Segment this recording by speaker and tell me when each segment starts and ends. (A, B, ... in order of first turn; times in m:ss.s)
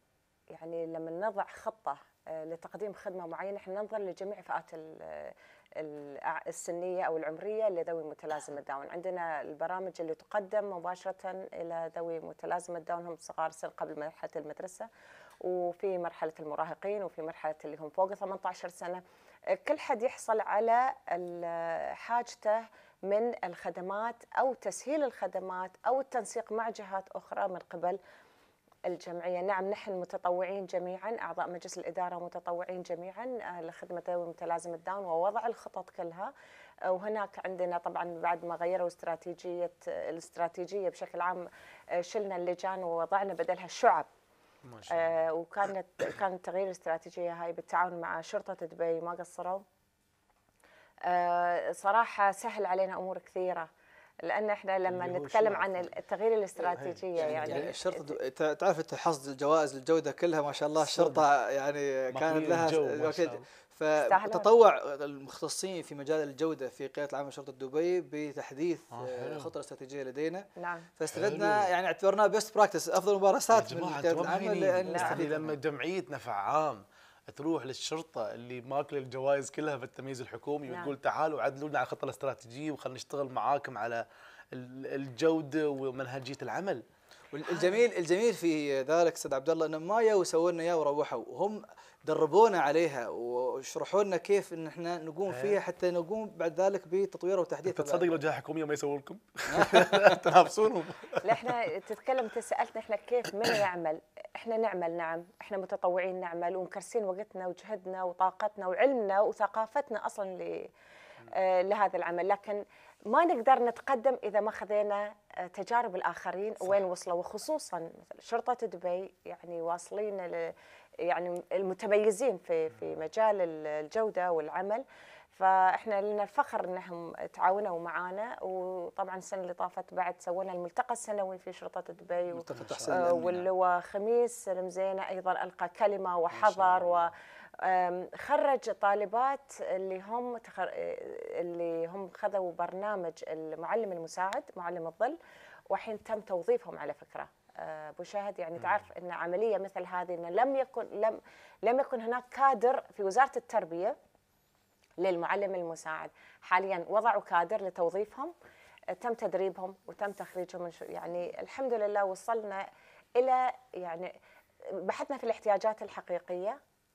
0:00.5-0:14.9 A
0:15.4-0:28.0 A
0:28.9-0:36.3 A
0:36.9-0:44.1 A
0:44.6-0:45.2 B
0:44.9-0:49.6 A
0:51.0-0:53.7 A
0:54.2-0:58.2 A
0:54.9-0:55.9 B
0:56.6-0:57.7 B
0:57.2-1:15.5 C
1:00.9-1:01.2 B
1:02.1-1:03.4 B
1:04.0-1:04.5 A
1:08.9-1:09.5 B
1:10.6-1:10.9 A
1:11.1-1:11.7 B
1:13.5-1:26.8 B
1:14.8-1:15.5 A
1:20.7-1:20.9 A
1:27.3-1:38.2 C
1:27.5-1:27.8 A
1:35.3-1:35.6 B
1:37.7-1:41.6 B
1:39.5-1:40.2 C
1:41.2-1:50.7 A
1:51.2-2:25.2 A
2:12.3-2:13.4 C
2:12.6-2:13.1 B
2:16.3-2:17.1 B
2:25.7-2:34.0 A
2:35.0-2:38.3 A
2:38.9-2:42.6 A
2:43.2-2:44.1 A
2:44.7-2:46.6 A